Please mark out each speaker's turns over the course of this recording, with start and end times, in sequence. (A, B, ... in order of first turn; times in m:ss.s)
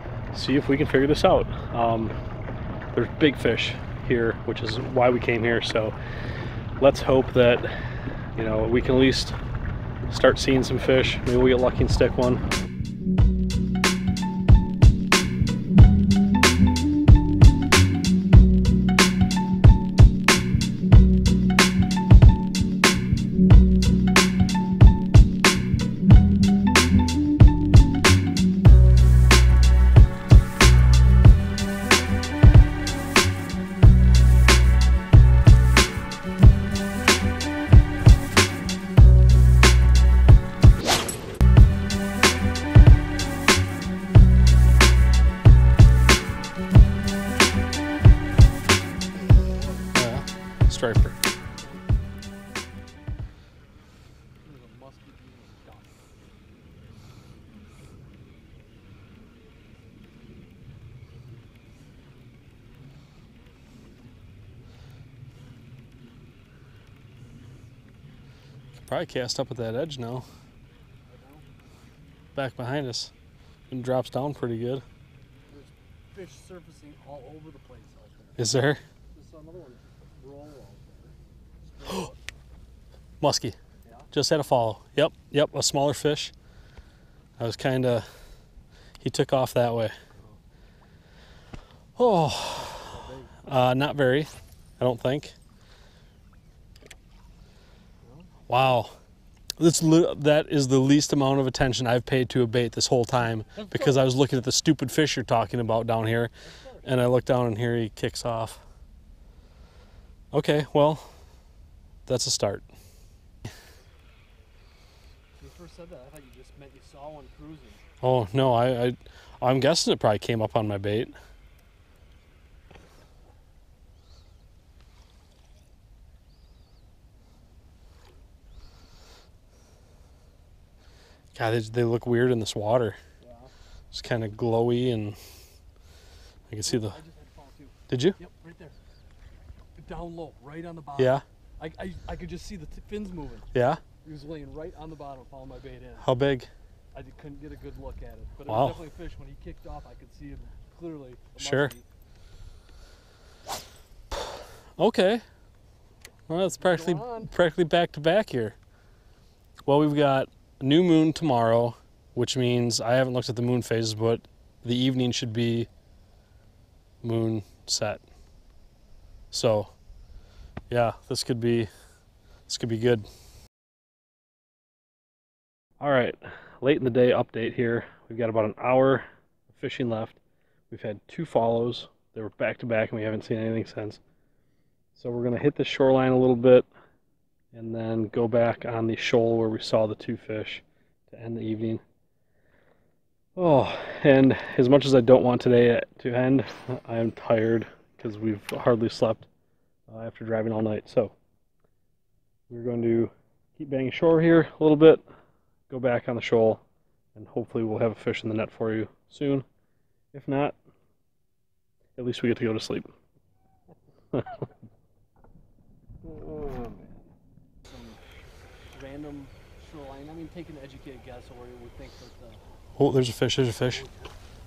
0:00.3-0:02.1 A
0:02.9-0:06.0 A
0:06.8-0:07.7 A
0:08.4-0:09.4 A
0:10.1-0:12.4 A
0:50.0-0:51.2 A
0:51.6-0:52.0 B
0:54.4-0:56.1 B
1:08.8-1:10.2 A
1:11.1-1:11.5 B
1:12.4-1:13.1 A
1:13.7-1:14.8 A
1:15.5-1:18.5 B
1:18.4-1:18.8 A
1:19.1-1:22.2 B
1:23.2-1:23.6 A
1:24.1-1:26.3 A
1:27.4-1:28.1 A
1:29.0-1:30.0 A
1:32.0-1:32.9 A
1:32.5-1:33.4 B
1:33.4-1:35.4 A
1:38.0-1:38.3 B
1:38.5-1:38.9 A
1:39.6-1:46.3 A
1:43.6-1:44.1 B
1:46.4-1:47.1 B
1:46.8-1:48.6 A
1:50.3-1:51.1 A
1:52.1-1:52.7 A
1:55.4-1:57.8 B
1:58.0-2:01.1 A
2:11.4-2:13.0 A
2:13.2-2:13.5 B
2:13.9-2:15.2 A
2:16.5-2:17.0 A
2:16.6-2:18.8 B
2:17.9-2:18.2 A
2:19.8-2:23.5 B
2:21.0-2:21.2 A
2:23.5-2:23.8 A
2:24.0-2:26.1 B
2:26.0-2:26.5 A
2:27.0-2:31.8 B
2:28.5-2:28.8 A
2:31.4-2:31.8 A
2:34.8-2:35.2 A
2:36.3-2:38.6 A
2:36.4-2:37.3 B
2:39.7-2:45.7 A
2:47.0-2:48.0 A
2:49.3-2:49.7 A
2:50.7-2:51.7 A
2:52.5-2:53.1 A
2:55.8-3:04.0 A
3:05.0-3:06.7 A
3:07.5-3:11.8 A
3:13.4-3:19.3 A
3:19.9-3:21.1 A
3:22.5-3:25.0 A
3:25.7-3:26.6 A
3:27.2-3:29.4 A
3:30.1-3:30.6 A
3:32.0-3:32.9 A
3:36.0-3:36.9 B
3:37.7-3:38.0 B
3:38.7-3:42.4 B
3:42.8-3:43.8 A
3:43.6-3:44.1 B